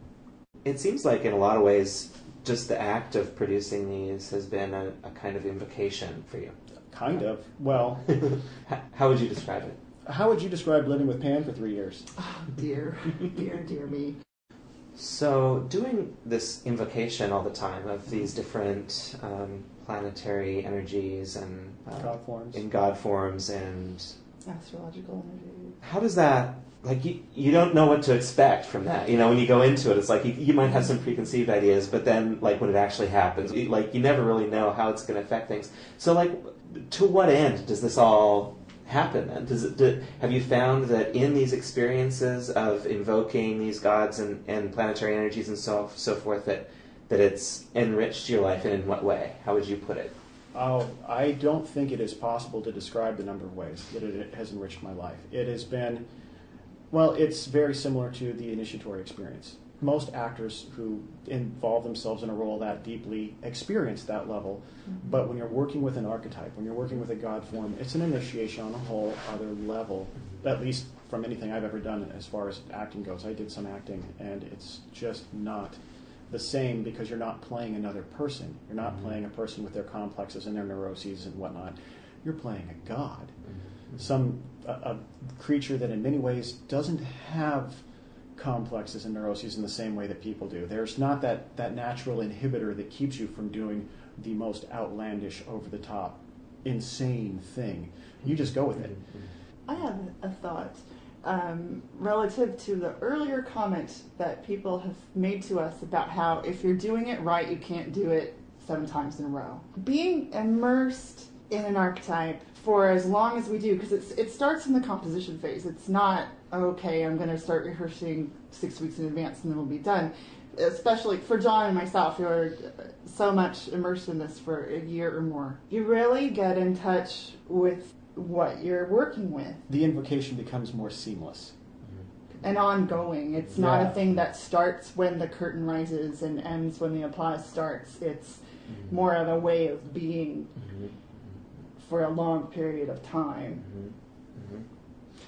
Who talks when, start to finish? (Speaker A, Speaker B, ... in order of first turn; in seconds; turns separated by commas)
Speaker A: 0.7-6.5, Speaker B: 6.9-8.3, Speaker A: 8.2-9.8, Speaker B: 10.1-12.1, Speaker C: 12.2-14.2, Speaker A: 14.9-24.1, Speaker B: 21.9-22.6, Speaker C: 24.5-25.8, Speaker A: 25.8-50.1, Speaker B: 50.5-56.1, Speaker B: 56.9-83.4, Speaker B: 83.9-87.8, Speaker B: 88.4-99.0, Speaker C: 99.7-129.6, Speaker B: 129.7-131.6, Speaker C: 132.4-140.5, Speaker B: 133.5-134.0, Speaker C: 141.8-143.7, Speaker A: 143.7-144.6